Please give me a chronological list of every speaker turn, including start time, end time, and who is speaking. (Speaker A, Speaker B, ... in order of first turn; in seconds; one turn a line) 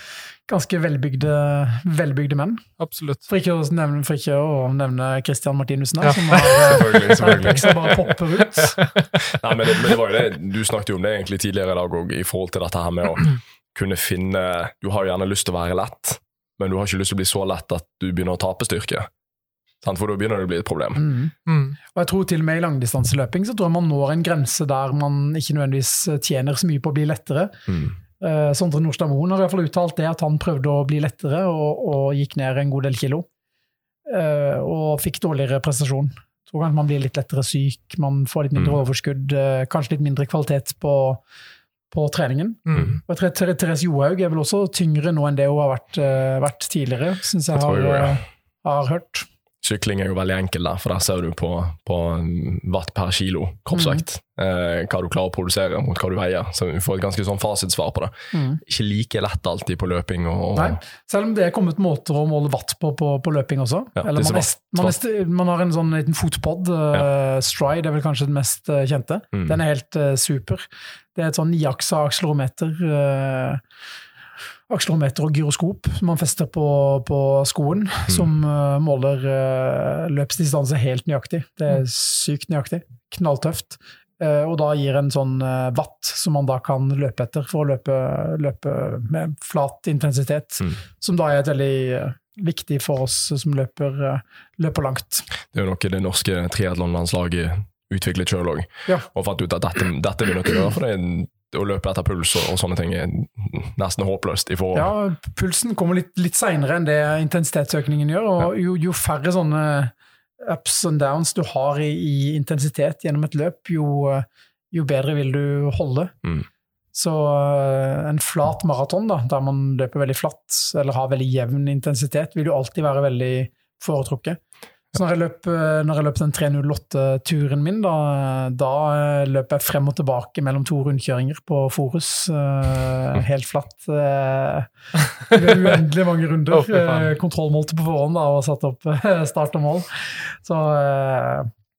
Speaker A: 0.5-2.7
Speaker B: 2.8-3.2
Speaker A: 3.2-8.8
Speaker B: 6.0-7.8
Speaker C: 6.6-7.9
Speaker B: 8.5-9.1
Speaker C: 9.3-19.1
Speaker C: 19.8-21.0
Speaker A: 20.9-21.3
Speaker B: 21.5-21.8
Speaker A: 21.9-27.6
Speaker C: 27.7-27.9
Speaker A: 28.2-33.3
Speaker A: 34.1-41.2
Speaker A: 41.9-49.3
Speaker B: 42.7-43.0
Speaker C: 42.7-43.0
Speaker C: 47.5-48.2
Speaker C: 49.6-60.8
Speaker A: 53.7-54.0
Speaker A: 58.3-58.6
Speaker A: 60.5-73.6
Speaker C: 64.0-64.9
Speaker A: 74.7-95.3
Speaker C: 95.5-104.9
Speaker A: 104.7-116.1
Speaker A: 116.9-124.4
Speaker A: 124.9-134.7
Speaker A: 135.2-141.5
Speaker B: 136.5-137.1